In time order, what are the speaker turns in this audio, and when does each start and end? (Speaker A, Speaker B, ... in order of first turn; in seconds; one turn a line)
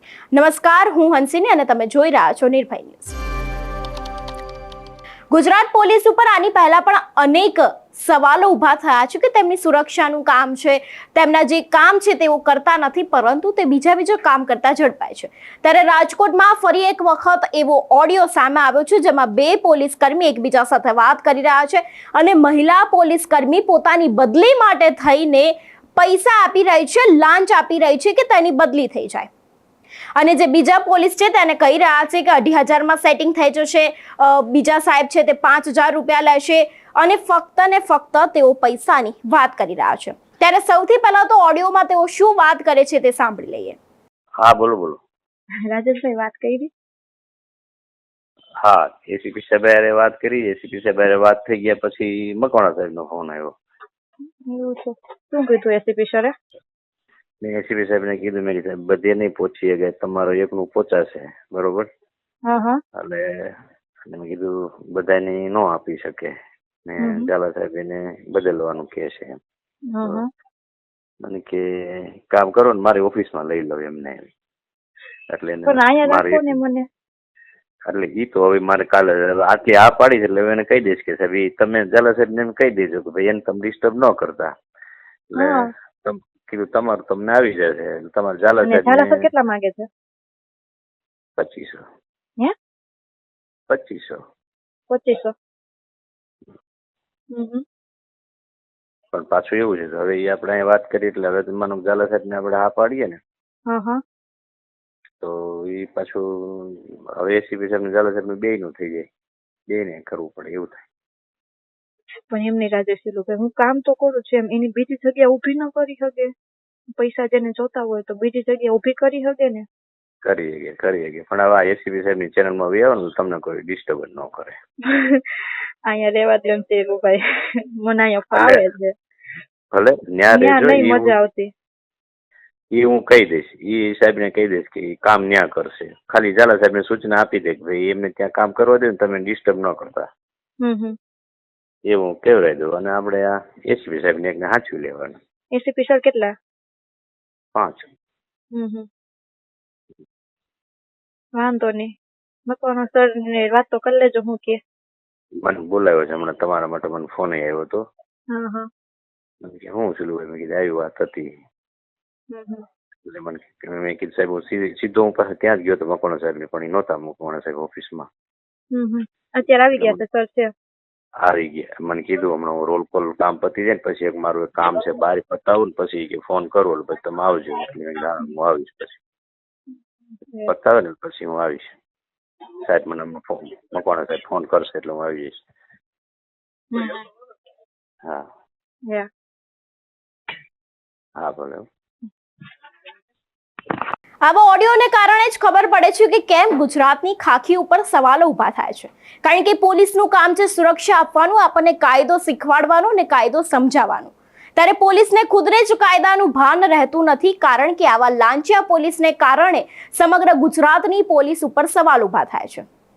Speaker A: 0.3-3.1
Speaker A: 5.3-29.3
Speaker A: 30.1-43.8
Speaker B: 44.4-45.0
Speaker C: 45.7-46.7
Speaker B: 48.6-53.5
Speaker C: 54.5-56.3
Speaker B: 57.4-61.9
Speaker C: 62.5-62.8
Speaker B: 63.0-63.5
Speaker B: 64.1-66.3
Speaker B: 66.8-69.4
Speaker C: 67.0-67.3
Speaker C: 69.9-70.3
Speaker B: 71.2-74.3
Speaker B: 75.3-76.5
Speaker C: 75.7-76.8
Speaker B: 77.9-84.5
Speaker B: 85.3-89.3
Speaker C: 85.4-85.7
Speaker C: 88.6-89.9
Speaker B: 91.4-91.8
Speaker B: 93.7-94.2
Speaker C: 94.9-95.3
Speaker C: 97.3-97.6
Speaker B: 99.1-103.2
Speaker C: 103.7-104.0
Speaker B: 105.2-109.1
Speaker B: 109.7-110.8
Speaker C: 112.3-116.3
Speaker C: 117.0-119.7
Speaker B: 120.2-124.6
Speaker C: 124.9-127.2
Speaker C: 127.8-128.9
Speaker B: 128.3-128.6
Speaker B: 129.7-131.1
Speaker C: 130.3-131.5
Speaker B: 132.7-140.1
Speaker C: 140.6-140.9
Speaker B: 141.9-145.2
Speaker C: 145.5-146.3
Speaker B: 147.6-147.9
Speaker C: 148.5-148.8
Speaker C: 151.4-151.9
Speaker C: 152.5-154.6
Speaker B: 155.4-157.8
Speaker C: 158.3-158.7
Speaker B: 159.4-161.3
Speaker C: 162.3-162.6
Speaker B: 163.1-168.1
Speaker C: 168.7-170.5
Speaker B: 169.8-170.0
Speaker B: 171.2-179.0
Speaker B: 180.5-181.7
Speaker B: 182.6-185.4
Speaker C: 186.7-187.0
Speaker B: 191.2-191.6
Speaker A: 194.2-212.7